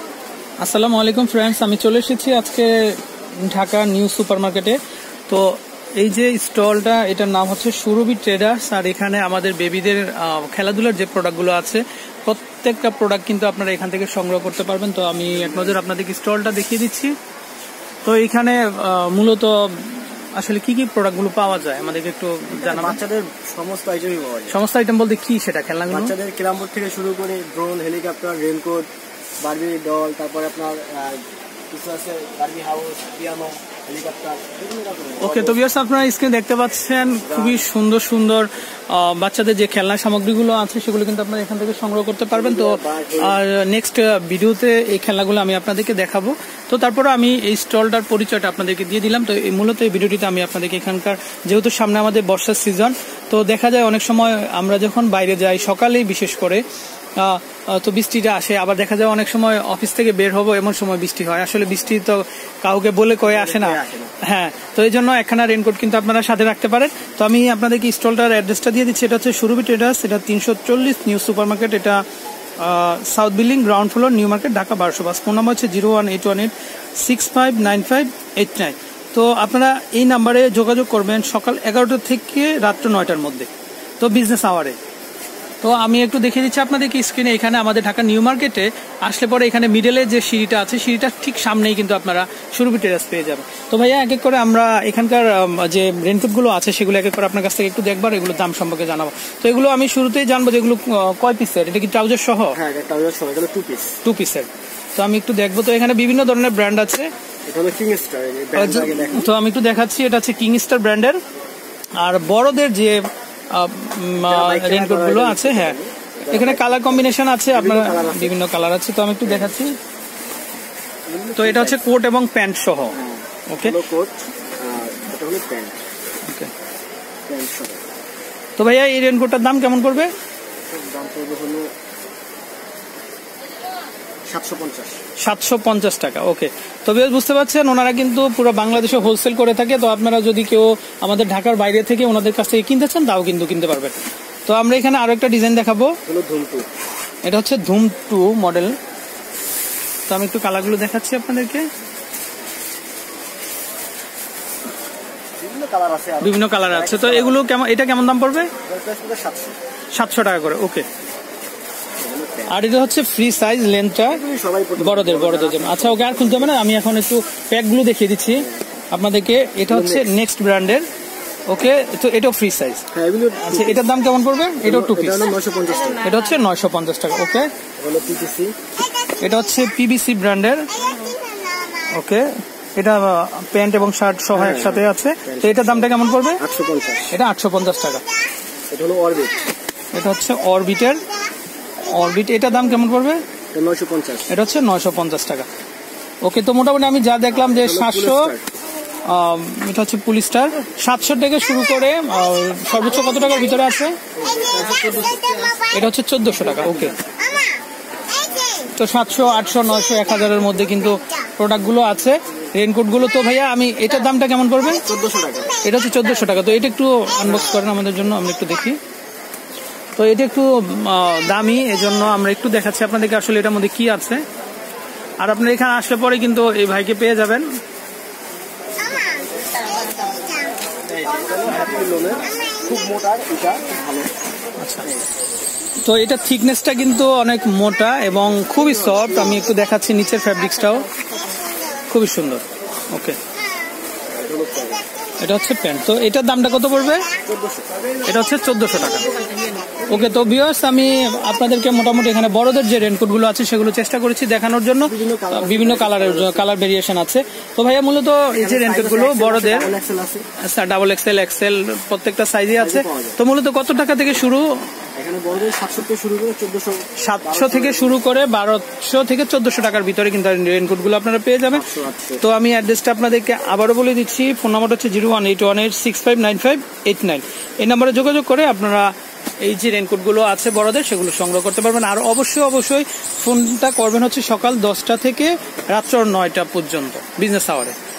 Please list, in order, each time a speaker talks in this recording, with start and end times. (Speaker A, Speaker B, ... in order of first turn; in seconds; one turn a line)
Speaker A: 0.6-4.8
Speaker A: 5.3-17.1
Speaker B: 15.3-15.8
Speaker A: 18.1-23.0
Speaker B: 22.6-24.6
Speaker A: 24.5-26.1
Speaker B: 25.9-28.9
Speaker B: 29.4-35.6
Speaker A: 35.2-56.6
Speaker B: 37.3-37.7
Speaker B: 42.3-43.4
Speaker A: 57.2-72.0
Speaker B: 63.2-64.1
Speaker A: 72.6-83.5
Speaker A: 84.0-84.8
Speaker A: 85.6-102.6
Speaker B: 102.5-104.0
Speaker A: 104.0-107.1
Speaker B: 107.5-109.3
Speaker A: 108.6-111.2
Speaker A: 112.0-113.0
Speaker A: 113.5-115.8
Speaker B: 114.3-118.3
Speaker A: 116.3-119.8
Speaker B: 119.3-119.5
Speaker B: 121.1-121.8
Speaker A: 121.4-123.0
Speaker B: 122.9-125.8
Speaker A: 123.5-123.8
Speaker B: 127.3-127.8
Speaker A: 128.6-130.1
Speaker B: 130.7-131.7
Speaker B: 134.3-135.0
Speaker A: 135.2-145.9
Speaker B: 146.1-146.7
Speaker A: 147.2-148.8
Speaker A: 150.1-151.7
Speaker B: 155.4-157.4
Speaker A: 156.2-158.5
Speaker B: 158.6-159.6
Speaker A: 159.9-160.9
Speaker B: 162.0-162.6
Speaker A: 162.5-164.2
Speaker B: 164.1-166.6
Speaker A: 164.8-170.9
Speaker B: 169.7-170.1
Speaker A: 171.5-172.8
Speaker B: 172.9-173.8
Speaker A: 173.4-175.3
Speaker B: 174.6-176.0
Speaker A: 176.0-177.5
Speaker B: 177.8-178.6
Speaker A: 179.2-180.7
Speaker A: 181.9-186.4
Speaker B: 184.3-187.1
Speaker A: 187.1-188.0
Speaker B: 188.7-189.4
Speaker A: 189.9-191.0
Speaker A: 191.9-193.2
Speaker B: 193.5-194.3
Speaker A: 194.3-195.5
Speaker A: 196.2-198.3
Speaker B: 197.4-198.4
Speaker A: 199.1-204.0
Speaker B: 204.2-205.3
Speaker A: 205.7-207.0
Speaker B: 206.6-206.9
Speaker A: 208.8-214.8
Speaker B: 214.8-215.5
Speaker A: 215.6-218.8
Speaker A: 220.0-224.2
Speaker A: 225.2-227.5
Speaker B: 230.9-234.1
Speaker A: 234.6-234.9
Speaker A: 235.8-240.9
Speaker B: 238.4-239.4
Speaker A: 241.9-243.2
Speaker B: 244.1-244.8
Speaker A: 245.2-247.1
Speaker B: 247.2-247.7
Speaker A: 248.1-249.1
Speaker A: 249.9-259.7
Speaker B: 254.8-256.5
Speaker B: 258.4-260.3
Speaker A: 260.4-264.7
Speaker B: 262.6-263.2
Speaker B: 265.0-268.1
Speaker A: 267.0-271.7
Speaker B: 271.5-272.2
Speaker A: 272.2-278.9
Speaker A: 279.4-287.8